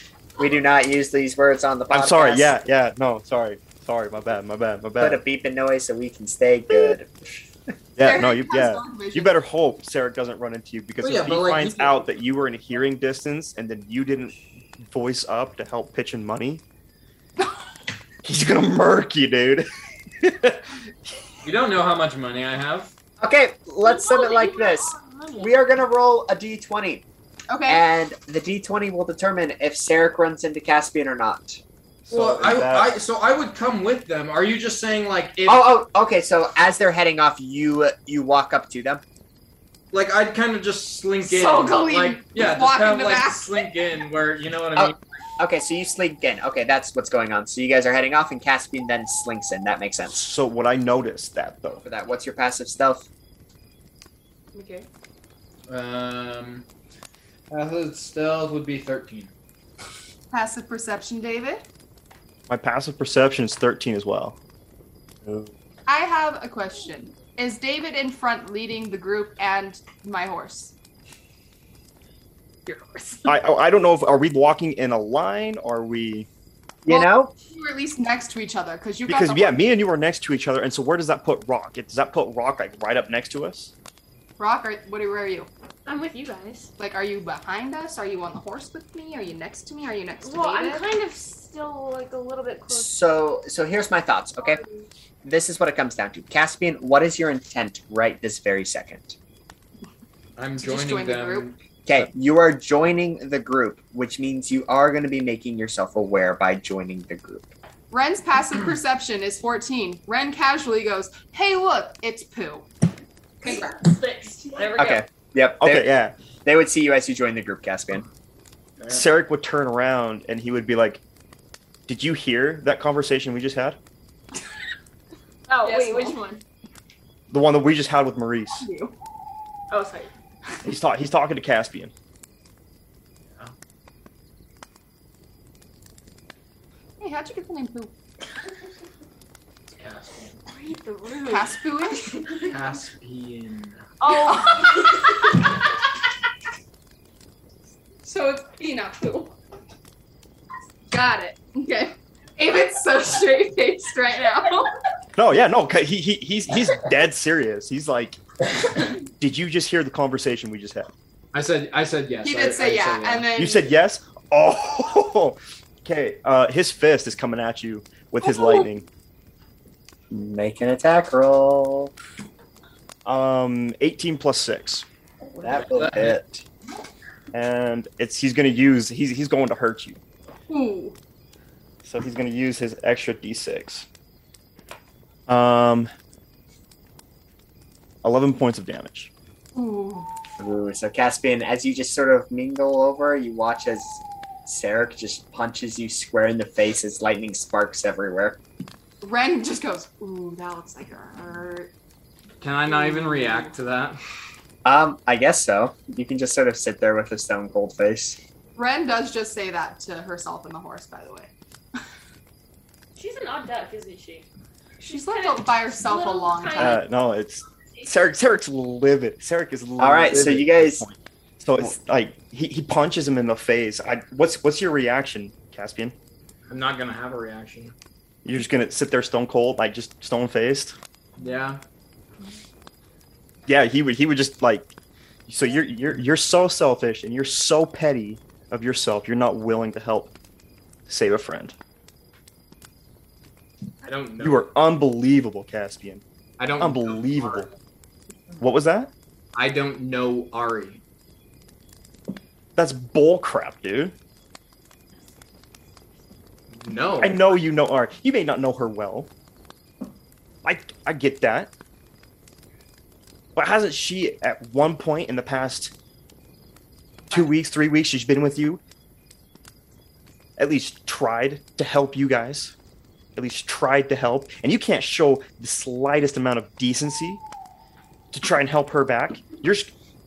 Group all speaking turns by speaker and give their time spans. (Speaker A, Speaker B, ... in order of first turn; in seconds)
Speaker A: 0.4-2.5, 5.0-7.4, 23.2-27.0, 27.7-31.6, 35.5-39.0, 44.7-50.2, 51.8-53.0, 76.8-77.3, 92.7-94.6, 95.2-99.2, 101.8-107.5, 114.8-115.9, 116.4-118.1, 170.1-171.9, 175.4-176.4, 190.4-198.4, 204.6-208.2, 219.8-220.8
Speaker B: 1.9-5.2, 8.0-16.6, 18.2-19.7, 20.2-20.7, 32.1-32.9, 50.1-51.8, 62.5-64.4, 65.2-65.5, 73.2-76.3, 79.1-83.7, 115.6-116.1, 118.9-121.0, 121.9-123.8, 127.3-128.7, 130.6-131.9, 155.2-158.2, 159.0-160.9, 163.4-168.8, 173.0-174.9, 177.3-180.0, 181.8-183.9, 185.3-185.9, 188.0-189.1, 216.6-225.9, 228.2-230.8, 233.5-234.7, 235.3-240.1, 240.9-241.6, 244.2-246.0, 246.6-247.5, 248.4-248.9, 252.6-253.9, 257.0-259.1, 260.4-261.5, 263.4-265.7, 267.1-268.6, 270.4-272.5, 273.1-277.2, 278.1-279.7
Speaker C: 8.0-9.3, 27.5-27.8, 41.2-43.7, 54.5-54.9, 60.3-61.6, 65.9-70.7, 72.7-73.3, 76.9-79.8, 84.4-85.5, 86.8-90.8, 100.6-101.5, 107.9-112.7, 113.4-114.7, 125.6-126.2, 128.5-128.9, 137.0-137.9, 141.2-142.3, 144.1-145.3, 148.0-149.3, 150.9-154.8, 162.2-163.7, 168.2-168.7, 180.5-181.0, 189.5-190.1, 199.0-201.7, 202.7-203.5, 208.6-211.3, 214.8-216.8
Speaker D: 11.0-12.0, 21.4-22.9, 32.1-35.7, 39.9-45.0, 55.7-56.6, 57.5-59.3, 100.4-102.1, 139.7-140.4, 142.4-143.9, 161.3-163.3, 175.5-176.2, 202.4-204.0, 226.5-227.7, 231.2-231.6, 243.8-244.4, 246.4-247.5, 249.3-250.8, 256.5-257.3
Speaker E: 23.8-25.5, 85.8-86.7, 90.2-93.0, 113.4-115.0, 125.5-126.4, 129.7-130.1, 140.5-142.3, 144.0-145.3, 212.9-214.3, 214.9-216.8